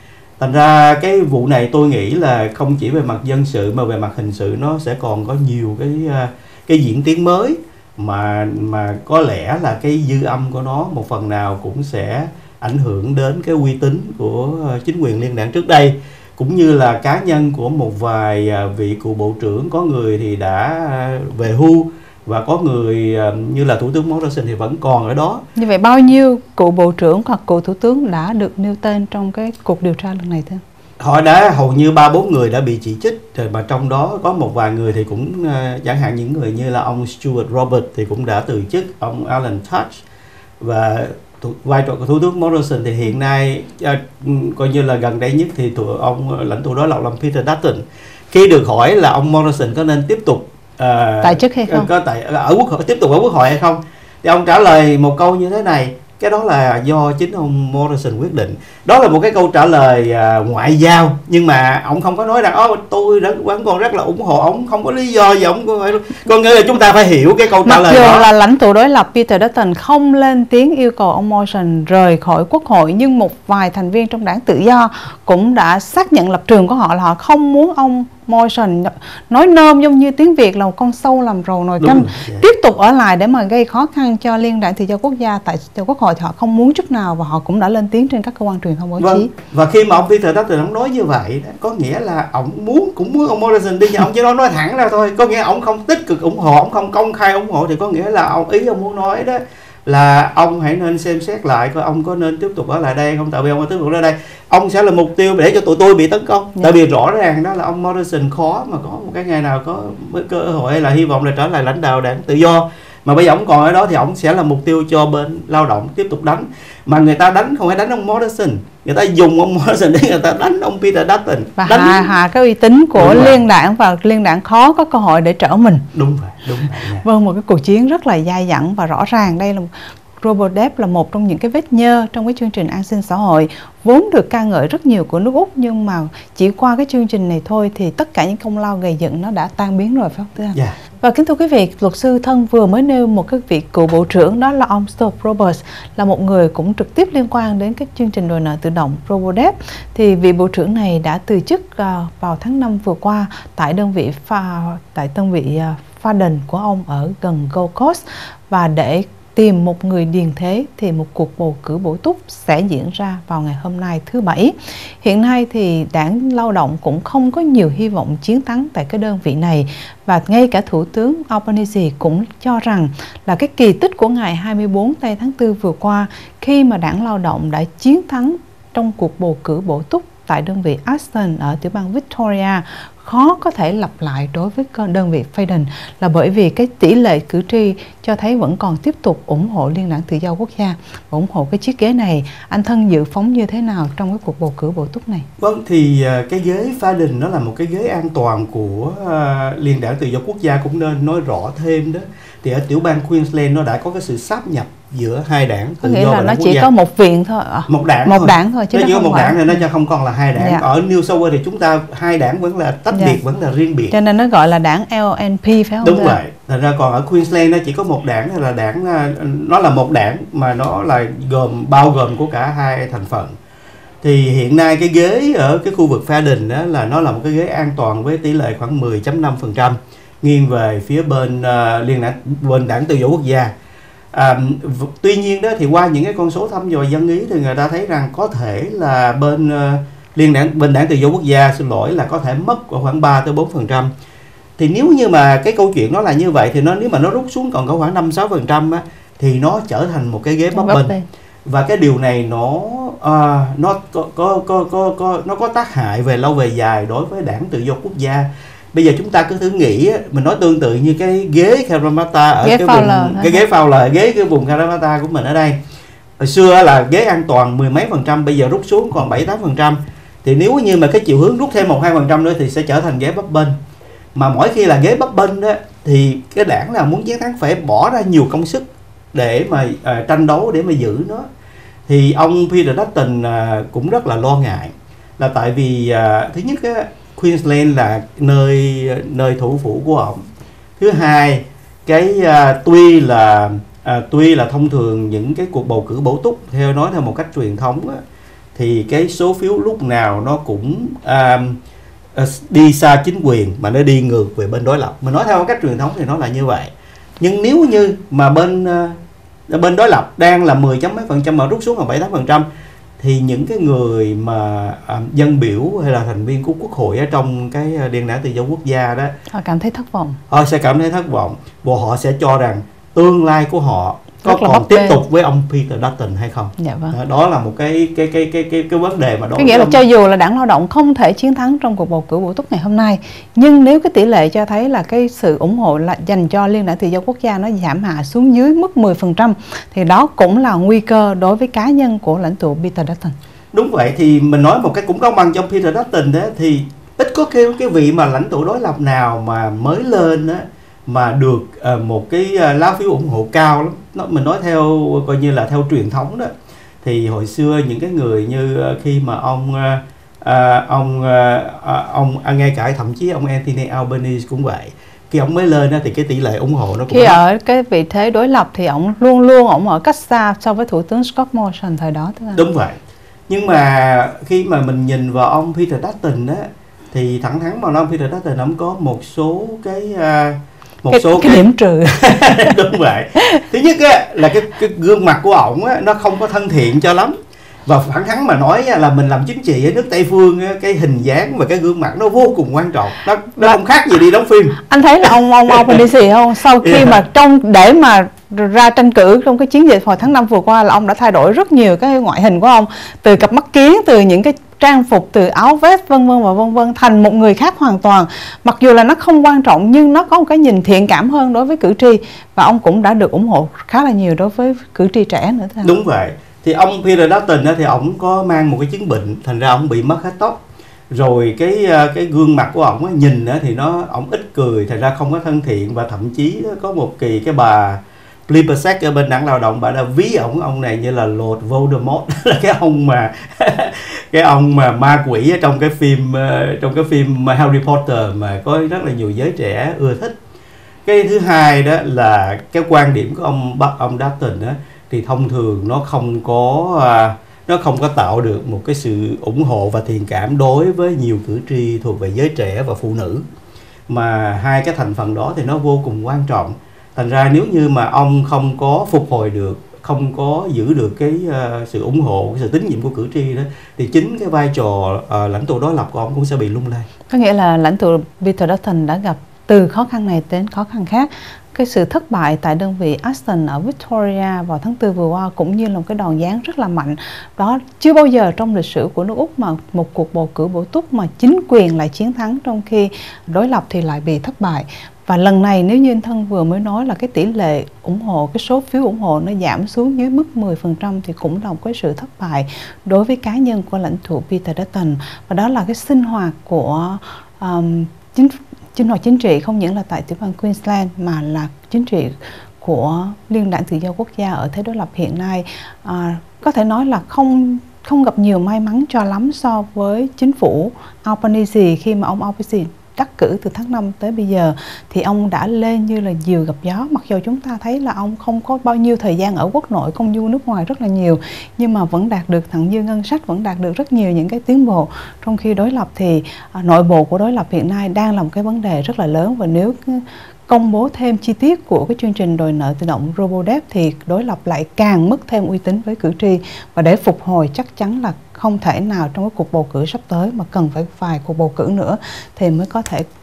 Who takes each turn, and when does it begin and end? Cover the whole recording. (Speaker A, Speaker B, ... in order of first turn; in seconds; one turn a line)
Speaker A: 0.4-25.4
Speaker B: 25.6-30.6
Speaker A: 31.0-40.0
Speaker A: 40.6-68.3
Speaker B: 51.2-51.9
Speaker B: 67.6-89.3
Speaker A: 81.8-82.5
Speaker A: 89.0-122.1
Speaker B: 121.6-125.8
Speaker A: 123.0-123.4
Speaker A: 125.9-127.0
Speaker B: 127.0-195.3
Speaker A: 195.4-206.7
Speaker B: 205.8-209.6
Speaker A: 207.7-213.9
Speaker B: 210.4-210.6
Speaker B: 213.9-216.2
Speaker A: 215.8-223.3
Speaker A: 224.0-233.5
Speaker A: 234.1-243.9
Speaker A: 244.6-250.9
Speaker B: 250.5-251.1
Speaker A: 251.4-265.6
Speaker B: 262.4-263.4
Speaker A: 266.2-273.6
Speaker A: 274.1-281.3
Speaker A: 281.9-290.2
Speaker A: 290.8-298.0
Speaker A: 298.6-301.6
Speaker A: 302.1-309.0
Speaker A: 309.5-312.5
Speaker A: 313.0-319.1
Speaker B: 319.3-320.2
Speaker A: 320.3-329.8
Speaker B: 324.2-325.0
Speaker B: 326.6-327.0
Speaker B: 329.4-343.2
Speaker A: 343.5-356.3
Speaker A: 356.8-367.2
Speaker B: 366.9-372.4
Speaker A: 372.4-381.4
Speaker B: 380.9-382.6
Speaker A: 381.9-387.1
Speaker B: 383.2-383.4
Speaker A: 387.7-394.6
Speaker B: 394.7-415.8
Speaker A: 395.5-395.8
Speaker A: 396.6-396.9
Speaker A: 415.6-440.2
Speaker A: 440.9-453.2
Speaker A: 453.9-466.9
Speaker B: 467.1-543.1